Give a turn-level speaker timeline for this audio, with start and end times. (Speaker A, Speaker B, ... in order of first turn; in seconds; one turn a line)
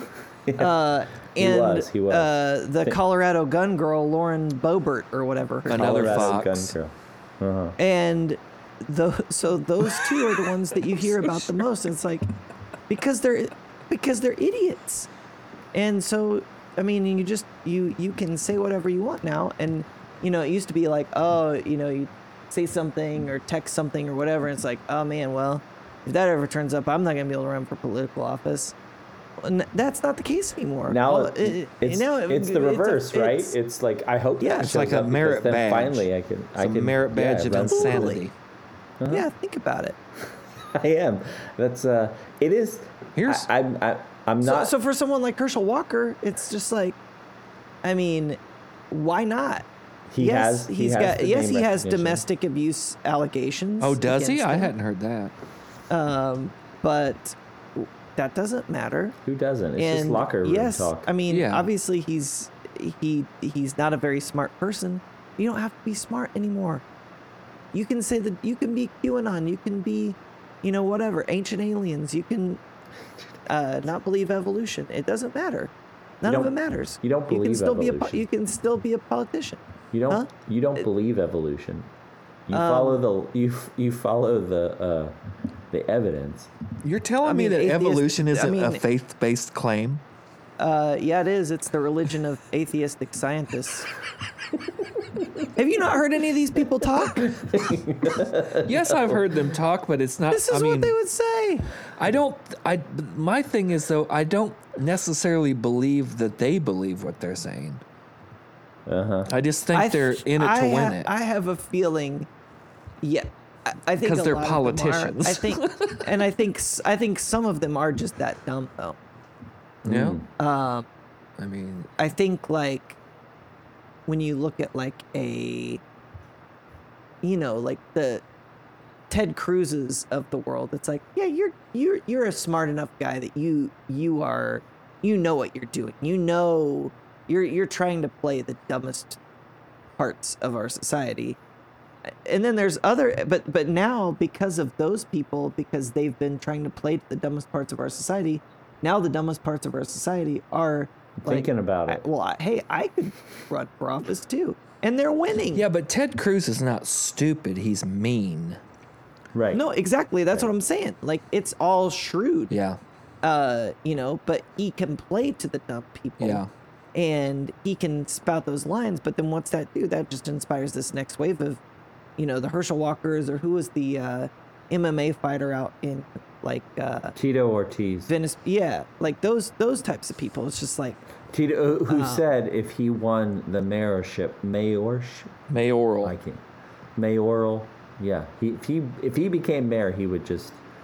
Speaker A: 0.5-0.8
Speaker B: 0.6-6.4
Speaker A: 1.4-3.0
Speaker C: 5.7-6.7
Speaker A: 5.7-7.8
Speaker B: 7.8-12.3
Speaker C: 11.0-11.5
Speaker B: 12.9-15.1
Speaker B: 15.7-28.7
Speaker B: 29.4-33.6
Speaker A: 30.9-38.2
Speaker B: 34.4-34.7
Speaker C: 34.6-38.3
Speaker B: 37.7-38.2
Speaker A: 39.0-39.3
Speaker B: 39.1-40.0
Speaker A: 40.7-44.7
Speaker C: 43.1-43.5
Speaker B: 44.4-47.0
Speaker B: 47.8-48.4
Speaker B: 48.9-49.6
Speaker A: 50.1-52.2
Speaker B: 50.2-54.7
Speaker C: 53.8-55.3
Speaker B: 55.9-59.1
Speaker A: 59.2-61.1
Speaker B: 59.8-66.8
Speaker C: 61.3-61.7
Speaker B: 67.7-72.6
Speaker B: 73.5-80.3
Speaker A: 76.2-78.2
Speaker A: 79.9-81.9
Speaker A: 82.5-85.1
Speaker B: 82.5-83.0
Speaker A: 85.7-86.5
Speaker C: 86.8-90.0
Speaker B: 87.2-88.8
Speaker B: 90.6-93.9
Speaker B: 95.5-97.5
Speaker A: 97.2-99.2
Speaker C: 98.5-100.9
Speaker B: 100.3-101.7
Speaker C: 102.0-107.8
Speaker A: 108.9-109.3
Speaker C: 109.3-111.1
Speaker B: 109.7-112.3
Speaker B: 113.0-119.0
Speaker C: 114.0-116.1
Speaker C: 119.8-120.2
Speaker A: 119.8-120.2
Speaker B: 120.4-120.8
Speaker C: 121.4-121.9
Speaker B: 122.0-123.0
Speaker B: 124.1-125.8
Speaker B: 127.2-128.2
Speaker B: 129.1-139.2
Speaker B: 140.0-141.4
Speaker B: 142.1-155.7
Speaker A: 151.2-152.0
Speaker C: 155.5-158.6
Speaker A: 159.3-159.6
Speaker B: 159.5-162.5
Speaker C: 162.5-162.8
Speaker B: 163.2-166.4
Speaker C: 166.2-166.5
Speaker B: 166.9-171.6
Speaker B: 172.2-177.2
Speaker A: 177.2-178.1
Speaker B: 178.1-181.0
Speaker A: 181.3-185.3
Speaker B: 181.9-182.2
Speaker C: 185.5-186.1
Speaker A: 186.0-186.4
Speaker A: 186.9-190.6